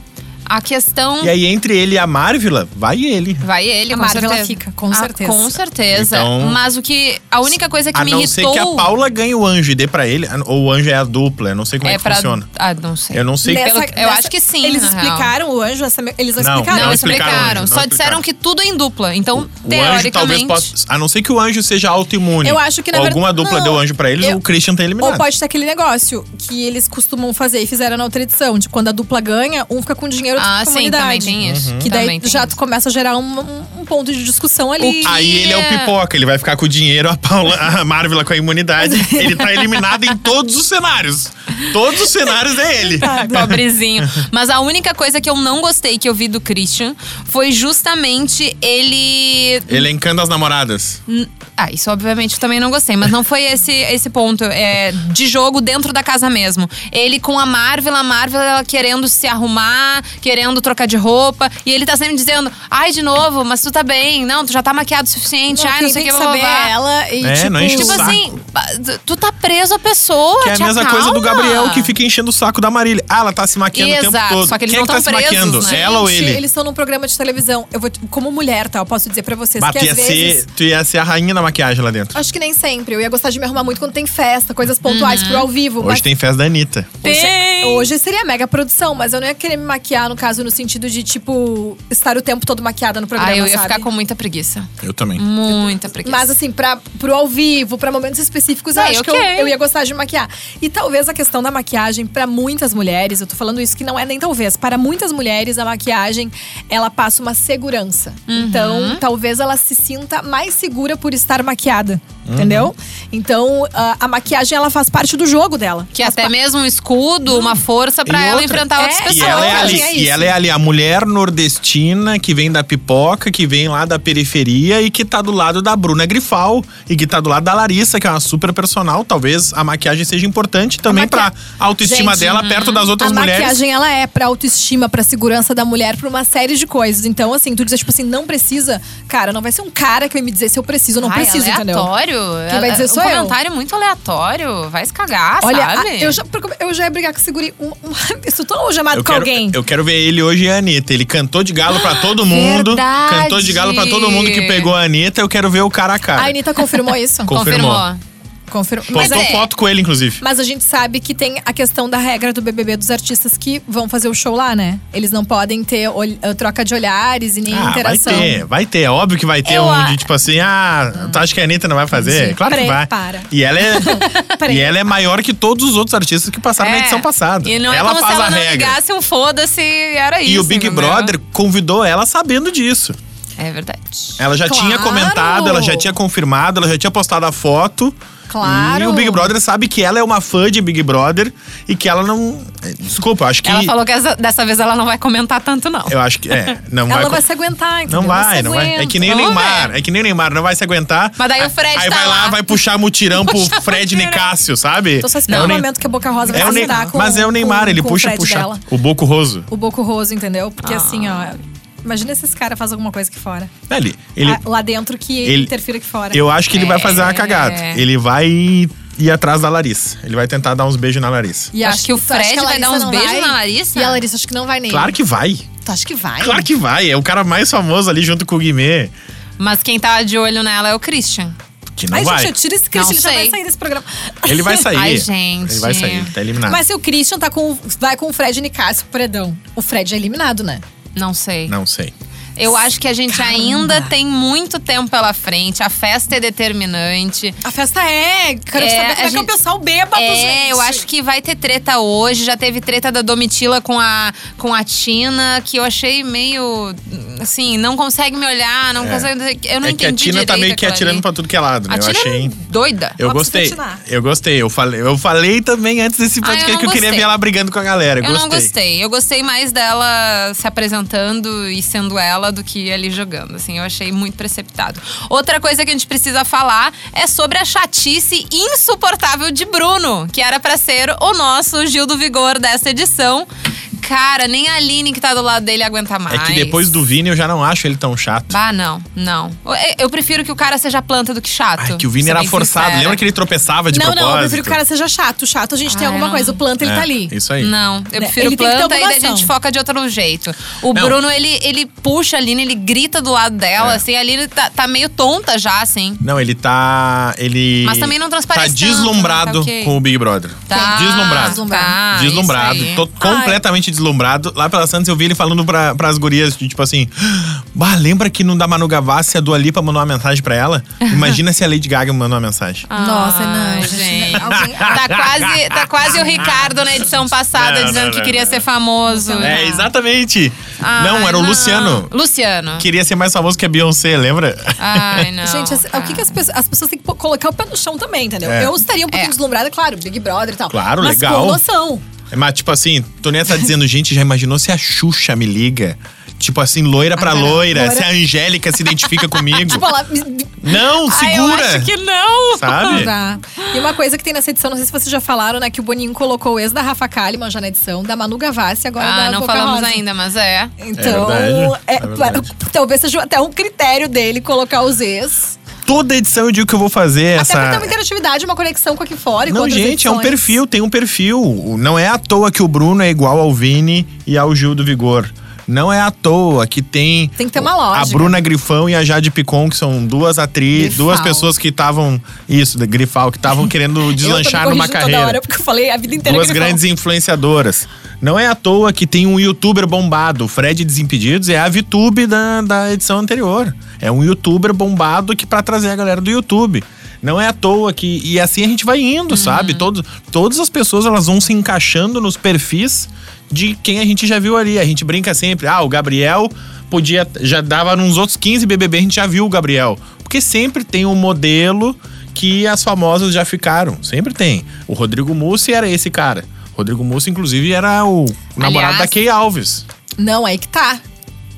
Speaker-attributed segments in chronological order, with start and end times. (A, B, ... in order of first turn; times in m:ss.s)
0:00.5-0:01.3 A
0:01.2-0:03.5 B
0:03.4-0:08.9 A
0:03.9-0:05.6 C
0:05.9-0:06.6 B
0:07.9-0:12.5 B
0:11.8-0:15.3 A
0:13.1-0:13.7 B
0:13.4-0:17.6 C
0:16.4-0:18.2 B
0:16.7-0:20.7 A
0:19.5-0:25.3 B
0:22.4-0:24.4 C
0:25.0-0:35.2 C
0:30.4-0:32.6 A
0:31.4-0:31.9 B
0:34.8-0:35.9 A
0:35.0-0:44.2 B
0:38.8-0:39.8 C
0:42.9-0:43.6 C
0:43.0-0:49.9 A
0:49.7-0:51.0 B
0:51.1-1:06.7 A
1:05.5-1:08.2 C
1:07.2-1:08.2 B
1:07.7-1:11.9 A
1:10.4-1:16.4 B
1:13.7-1:15.8 A
1:15.6-1:20.4 C
1:19.6-1:22.2 B
1:22.2-1:26.0 C
1:24.9-1:25.5 A
1:25.8-1:27.0 B
1:27.0-1:33.9 C
1:27.0-1:27.9 A
1:33.2-1:36.3 A
1:34.8-1:35.2 B
1:36.0-1:56.3 C
1:38.8-1:39.5 A
1:48.3-1:49.0 A
1:52.3-1:52.7 B
1:56.0-1:59.9 A
1:58.1-2:13.6 B
1:58.8-2:00.4 C
2:10.9-2:11.2 A
2:11.8-2:12.4 C
2:11.9-2:12.9 A
2:13.0-2:21.9 C
2:21.0-2:26.2 A
2:22.5-2:23.4 C
2:25.4-2:29.6 C
2:28.9-2:36.4 B
2:31.7-2:34.7 A
2:36.2-2:37.4 C
2:37.3-2:37.9 B
2:37.3-2:38.0 A
2:38.5-2:39.3 C
2:38.9-2:40.2 B
2:38.9-2:39.5 A
2:40.2-2:48.4 C
2:47.5-2:58.8 B
2:49.5-2:50.0 A
2:52.0-2:54.8 C
2:54.0-2:54.3 A
2:56.6-3:01.1 A
3:00.2-3:03.0 B
3:03.4-3:04.2 A
3:04.2-3:13.7 B
3:04.4-3:05.9 C
3:08.3-3:09.3 C
3:13.4-3:16.0 A
3:15.9-3:17.2 B
3:16.9-3:19.2 C
3:17.9-3:25.7 B
3:19.0-3:19.7 A
3:21.2-3:22.6 A
3:23.1-3:24.3 A
3:25.0-3:28.6 C
3:25.3-3:25.6 A
3:26.3-3:26.9 A
3:26.3-3:29.5 B
3:29.5-3:33.5 C
3:30.6-3:31.4 A
3:33.7-3:34.4 B
3:34.2-3:36.3 C
3:35.2-3:35.5 B
3:36.1-3:41.5 B
3:36.5-3:37.8 A
3:41.5-3:45.0 C
3:41.6-3:44.0 A
3:44.7-3:45.5 B
3:45.6-3:46.5 C
3:46.2-3:48.9 B
3:49.4-3:51.4 A
3:51.8-3:52.3 B
3:51.9-3:54.7 C
3:52.7-3:53.4 A
3:54.2-3:56.6 B
3:54.7-3:56.1 A
3:56.4-4:00.6 C
4:01.0-4:01.6 A
4:01.5-4:01.9 B
4:02.4-4:07.4 A
4:03.1-4:03.9 C
4:07.4-4:10.8 C
4:08.6-4:09.3 A
4:09.9-4:21.0 A
4:18.8-4:19.1 B
4:19.6-4:22.3 B
4:21.7-4:23.0 A
4:23.0-4:28.5 B
4:23.0-4:23.8 C
4:26.2-4:27.1 A
4:28.0-4:43.3 A
4:43.8-4:46.8 A
4:46.1-4:48.4 B
4:48.3-4:53.0 A
4:51.6-4:54.6 B
4:53.7-4:57.2 C
4:55.7-4:56.4 A
4:56.6-4:57.5 B
4:57.4-5:06.0 A
4:57.9-4:59.3 C
5:00.7-5:01.0 B
5:03.6-5:03.8 B
5:06.0-5:22.7 B
5:07.6-5:09.8 A
5:10.5-5:12.9 A
5:10.5-5:11.8 C
5:13.0-5:13.4 C
5:20.8-5:21.2 A
5:22.7-5:29.7 A
5:22.8-5:25.1 C
5:24.2-5:26.6 B
5:25.9-5:26.5 C
5:27.3-5:28.4 B
5:28.9-5:29.5 C
5:29.2-5:31.9 B
5:30.6-5:32.7 A
5:32.6-5:35.1 B
5:34.6-5:36.1 A
5:35.2-5:41.8 C
5:38.2-5:38.6 B
5:40.5-5:41.4 B
5:42.1-5:49.6 B
5:47.0-5:47.9 C
5:49.3-5:50.5 C
5:50.4-5:51.7 B
5:50.9-5:52.9 A
5:52.3-5:52.9 B
5:52.7-5:59.8 C
5:58.8-6:00.5 A
6:00.6-6:05.4 C
6:00.8-6:02.3 B
6:05.7-6:07.7 B
6:07.2-6:10.2 C
6:09.3-6:25.2 B
6:17.2-6:18.2 C
6:20.6-6:21.3 C
6:23.9-6:26.6 C
6:26.0-6:59.6 B
6:39.1-6:39.7 A
6:58.4-6:59.0 A
7:00.0-7:00.8 C